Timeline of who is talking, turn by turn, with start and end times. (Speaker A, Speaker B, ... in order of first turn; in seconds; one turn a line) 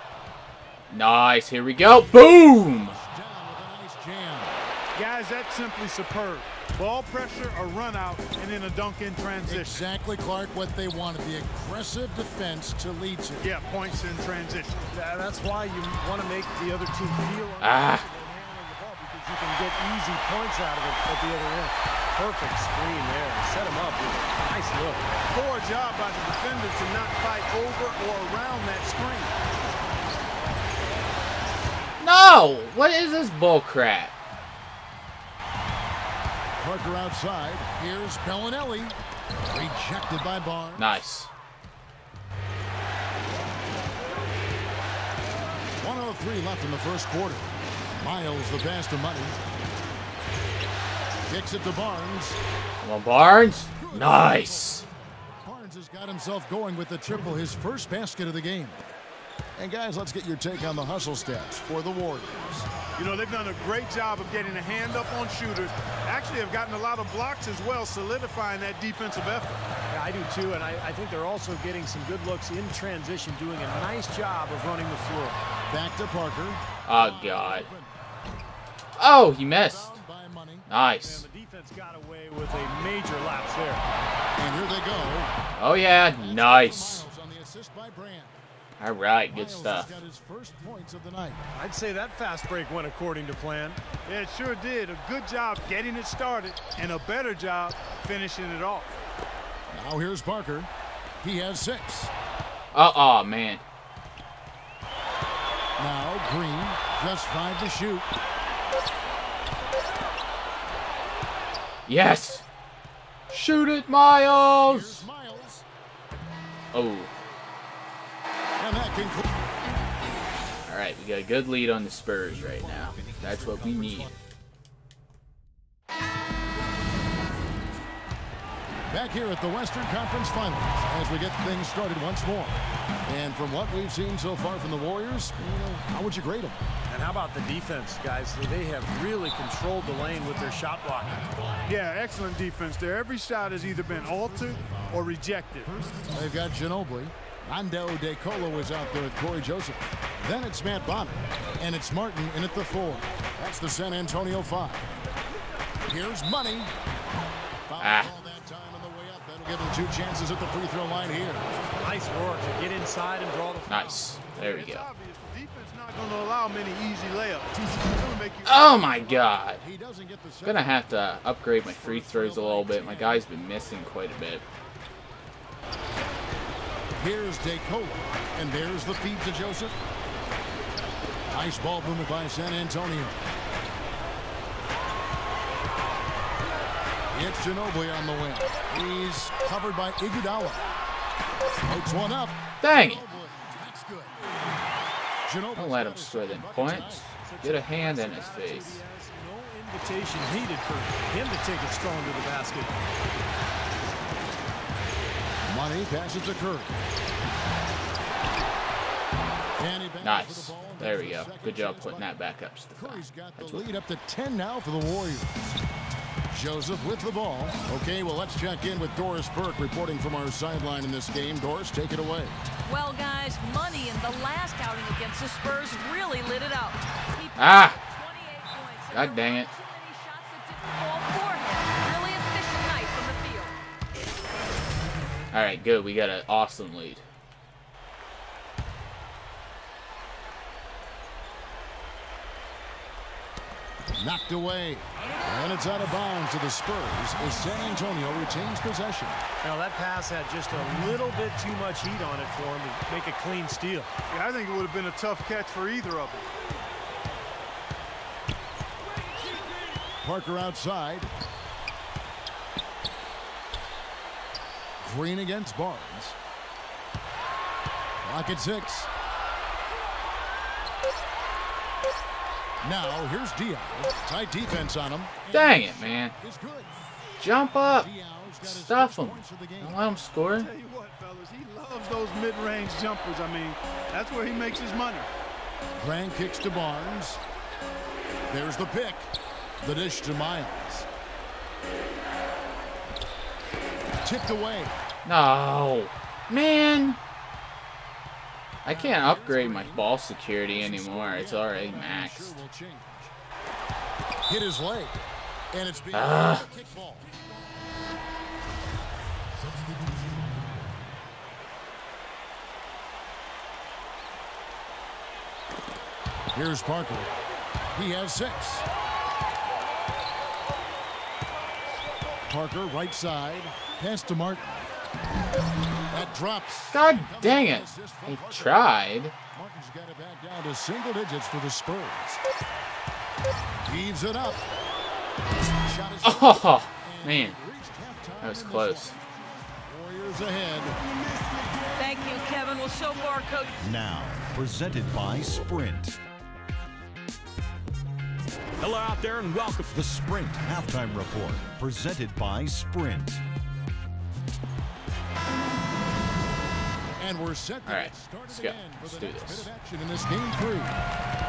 Speaker A: 0.9-3.0
Speaker B: 1.8-4.6
Speaker C: 4.9-9.8
Speaker B: 9.4-13.5
Speaker C: 13.4-14.8
Speaker D: 14.9-25.0
Speaker A: 17.6-18.0
Speaker C: 25.3-29.3
Speaker A: 32.0-34.1
Speaker B: 36.6-39.0
Speaker B: 39.5-41.0
Speaker A: 40.8-41.3
Speaker B: 45.8-49.4
Speaker B: 51.2-52.4
Speaker A: 52.8-54.9
Speaker B: 53.8-54.9
Speaker B: 55.4-58.9
Speaker B: 59.5-62.7
Speaker C: 63.0-69.6
Speaker D: 69.9-75.4
Speaker B: 75.7-77.9
Speaker A: 76.8-77.7
Speaker A: 79.0-80.0
Speaker B: 79.5-80.7
Speaker A: 80.7-81.3
Speaker D: 81.0-83.8
Speaker B: 84.4-85.3
Speaker A: 85.6-87.0
Speaker B: 86.0-88.4
Speaker A: 88.8-89.9
Speaker B: 89.3-91.4
Speaker D: 91.5-93.8
Speaker C: 94.0-99.0
Speaker B: 99.7-100.7
Speaker B: 101.2-102.1
Speaker A: 102.7-103.6
Speaker B: 105.8-108.1
Speaker A: 111.9-112.4
Speaker A: 113.3-115.1
Speaker B: 114.6-115.6
Speaker A: 116.7-117.1
Speaker B: 118.6-119.3
Speaker A: 120.6-124.1
Speaker B: 122.3-124.1
Speaker B: 128.9-136.6
Speaker D: 136.9-141.5
Speaker C: 141.7-145.7
Speaker E: 144.6-145.0
Speaker E: 145.7-146.1
Speaker B: 146.1-154.9
Speaker B: 155.8-156.7
Speaker B: 157.7-161.6
Speaker A: 157.8-158.1
Speaker D: 161.8-164.1
Speaker A: 163.7-164.9
Speaker C: 164.2-169.3
Speaker A: 168.4-169.6
Speaker B: 169.6-170.8
Speaker A: 170.4-174.4
Speaker B: 171.6-173.2
Speaker B: 177.0-179.7
Speaker B: 181.3-183.2
Speaker B: 187.1-190.7
Speaker B: 191.6-194.3
Speaker A: 192.6-193.1
Speaker B: 195.2-197.1
Speaker A: 195.5-198.8
Speaker D: 197.2-202.7
Speaker B: 205.4-206.7
Speaker B: 209.6-212.2
Speaker A: 210.0-213.7
Speaker B: 212.8-215.6
Speaker B: 216.3-222.4
Speaker F: 222.7-233.6
Speaker A: 227.4-227.8
Speaker A: 228.9-229.5
Speaker A: 235.3-237.0
Speaker B: 244.0-249.2
Speaker D: 249.4-253.9
Speaker C: 254.1-256.3
Speaker B: 260.0-261.1
Speaker B: 264.8-266.1
Speaker B: 268.0-268.9
Speaker B: 272.6-276.7
Speaker A: 275.3-276.1
Speaker A: 277.2-280.5
Speaker B: 277.3-279.8
Speaker C: 280.3-285.1
Speaker B: 285.8-287.2
Speaker B: 288.3-290.9
Speaker B: 294.0-294.8
Speaker A: 295.0-297.0
Speaker A: 298.6-302.4
Speaker B: 298.6-299.9
Speaker B: 300.4-303.1
Speaker B: 304.3-305.0
Speaker B: 305.5-307.1
Speaker A: 305.9-306.4
Speaker B: 316.3-317.1
Speaker B: 317.7-318.6
Speaker B: 322.3-324.7
Speaker B: 325.9-328.8
Speaker A: 326.7-329.1
Speaker B: 329.3-332.2
Speaker B: 333.6-334.4
Speaker B: 335.6-339.0
Speaker A: 336.0-337.4
Speaker A: 338.2-338.9
Speaker B: 339.6-340.8
Speaker E: 341.0-342.0
Speaker F: 341.8-343.6
Speaker E: 343.6-345.9
Speaker E: 348.6-353.2
Speaker B: 357.0-360.8
Speaker A: 357.6-359.5